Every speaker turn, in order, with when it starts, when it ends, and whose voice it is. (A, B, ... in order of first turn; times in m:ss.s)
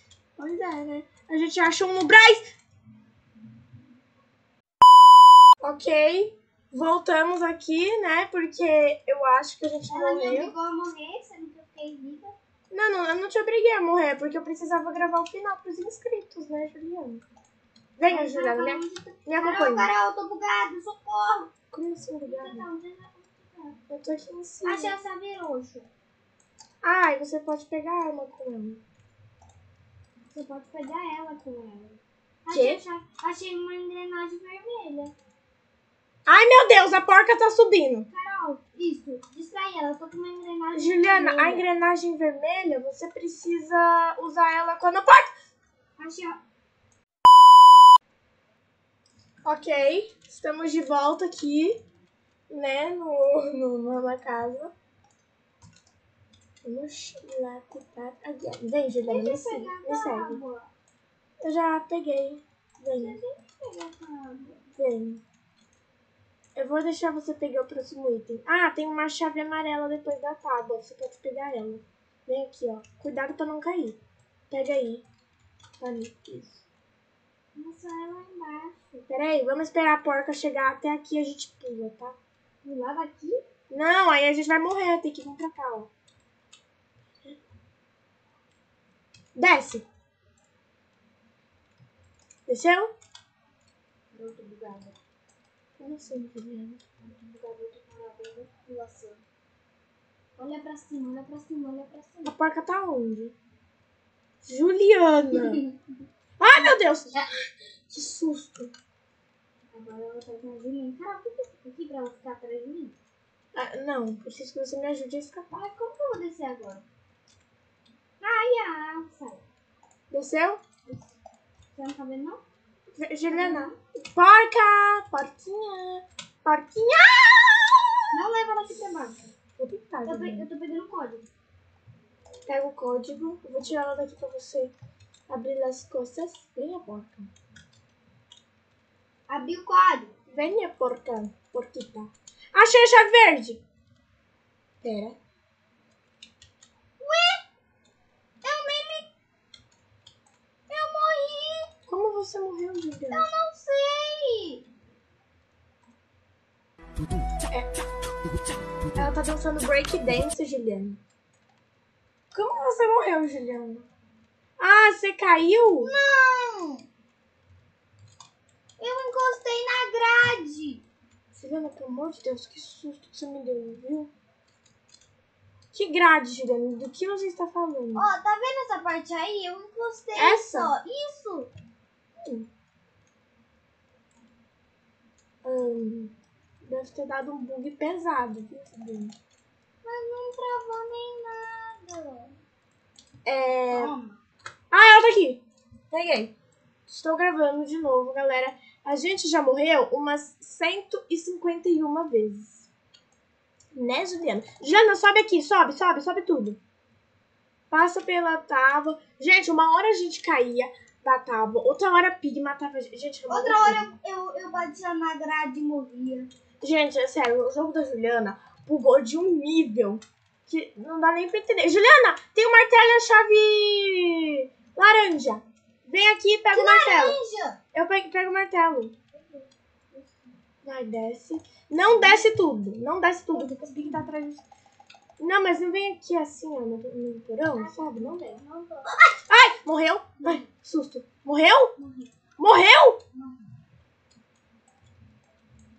0:00.4-0:02.4 A
0:05.6-0:10.5 A
0:09.9-0:12.3 B
0:12.7-0:17.2 A
0:18.0-0:19.9 A
0:18.0-0:21.5 B
0:21.7-0:22.6 A
0:22.2-0:23.8 B
0:23.9-0:24.9 A
0:24.6-0:25.9 B
0:26.8-0:28.8 A
0:30.3-0:35.1 B
0:32.5-0:32.8 A
0:36.3-0:38.1 A
0:38.1-0:41.7 B
0:40.7-0:45.3 A
0:46.0-0:46.4 B
0:49.4-0:51.8 A
0:52.5-0:54.7 A
0:56.6-1:00.4 A
0:59.1-1:00.7 B
1:01.4-1:03.2 A
1:02.9-1:04.7 B
1:04.8-1:05.2 A
1:06.6-1:14.0 A
1:14.5-1:15.0 A
1:15.8-1:16.6 A
1:17.5-1:19.1 B
1:19.1-1:22.2 A
1:22.6-1:23.4 B
1:23.7-1:25.9 A
1:29.3-1:29.8 A
1:32.5-1:32.9 A
1:34.1-1:35.0 B
1:35.8-1:36.8 A
1:37.0-1:39.2 B
1:40.4-1:42.3 B
1:42.2-1:43.3 A
1:44.4-1:45.6 A
1:45.3-1:45.8 B
1:46.4-1:47.3 A
1:47.9-1:48.7 A
1:49.7-1:52.9 B
1:53.5-1:55.5 A
1:55.5-1:56.8 B
1:58.2-1:59.4 B
2:00.1-2:00.6 A
2:01.7-2:02.4 B
2:02.9-2:08.2 A
2:03.3-2:03.8 B
2:08.1-2:09.3 B
2:09.6-2:10.5 A
2:10.0-2:11.3 B
2:12.5-2:14.7 A
2:15.3-2:17.3 A
2:19.3-2:20.1 B
2:20.3-2:23.6 A
2:24.8-2:25.2 A
2:27.0-2:27.4 B
2:28.4-2:29.1 B
2:30.7-2:31.7 B
2:31.9-2:33.3 A
2:33.1-2:34.6 B
2:37.5-2:37.8 A
2:38.9-2:41.0 A
2:42.3-2:43.9 A
2:44.6-2:45.9 A
2:45.8-2:46.8 B
2:48.8-2:50.8 B
2:51.3-2:54.1 A
2:55.7-2:58.1 A
2:57.9-3:01.5 B
3:00.2-3:00.7 A
3:02.2-3:02.5 A
3:05.4-3:09.2 A
3:09.8-3:12.4 B
3:13.2-3:13.9 A
3:13.7-3:14.2 B
3:14.7-3:16.3 A
3:16.9-3:22.7 A
3:23.7-3:26.6 A
3:27.7-3:33.8 A
3:33.3-3:36.3 B
3:36.6-3:47.2 A
3:46.5-3:47.6 B
3:47.7-3:48.9 A
3:49.1-3:50.3 B
3:50.6-3:54.4 A
3:52.0-3:52.2 B
3:53.3-3:54.1 B
3:55.2-3:58.4 A
3:57.3-3:59.2 B
3:59.3-4:01.7 A
4:00.2-4:00.5 B
4:01.8-4:02.1 B
4:02.4-4:03.0 A
4:03.1-4:03.5 B